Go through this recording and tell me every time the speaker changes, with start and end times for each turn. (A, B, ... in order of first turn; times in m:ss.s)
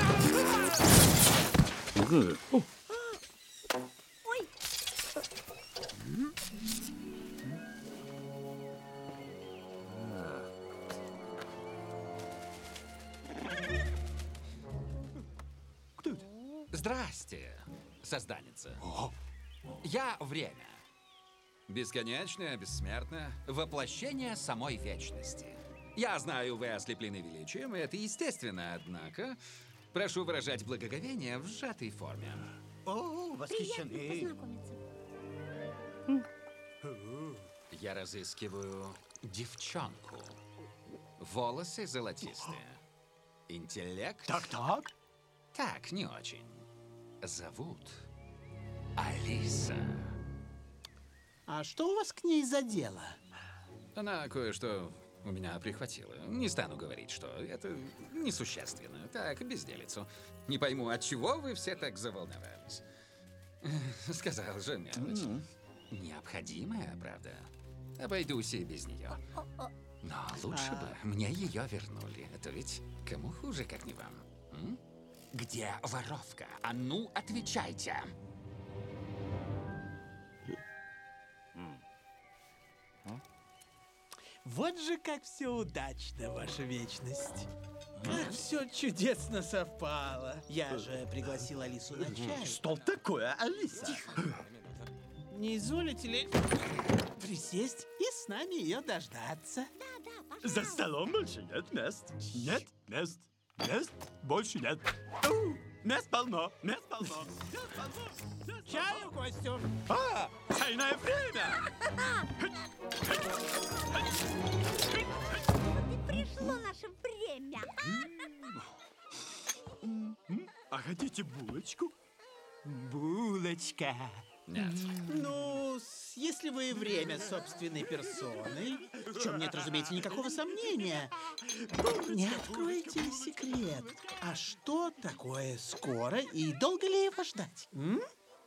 0:16.0-0:16.2 A
0:16.7-0:18.8 B
0:18.8-0:19.1 A
0:19.8-0:20.8 B
0:21.7-0:29.4 B
0:29.9-0:32.5 B
0:32.8-0:34.3 A
0:33.5-0:34.8 C
0:36.9-0:37.2 A
0:37.7-0:40.4 B
0:41.2-0:42.8 B
0:42.2-0:42.6 A
0:43.5-0:44.5 B
0:44.2-0:44.9 A
0:45.5-0:46.6 B
0:47.2-0:48.1 B
0:49.0-0:50.1 B
0:51.4-0:53.2 D
0:53.9-1:02.8 B
1:03.6-1:09.2 B
1:05.0-1:05.4 A
1:09.3-1:09.7 C
1:10.0-1:14.8 B
1:10.4-1:11.0 D
1:15.3-1:18.1 B
1:24.4-1:27.5 D
1:28.0-1:32.6 D
1:32.0-1:34.4 A
1:33.8-1:34.2 C
1:35.3-1:36.3 D
1:37.1-1:39.7 D
1:39.8-1:40.9 C
1:40.4-1:49.1 A
1:42.3-1:42.6 D
1:48.6-1:49.7 D
1:49.8-1:51.7 A
1:52.4-1:53.4 A
1:53.9-1:54.2 A
1:54.9-1:55.2 A
1:55.7-1:58.1 C
1:56.3-1:56.6 A
1:57.9-1:58.7 A
1:59.8-2:01.9 A
2:02.6-2:05.4 A
2:04.4-2:05.0 B
2:05.0-2:11.2 D
2:09.0-2:10.1 A
2:11.4-2:14.2 A
2:12.0-2:18.0 D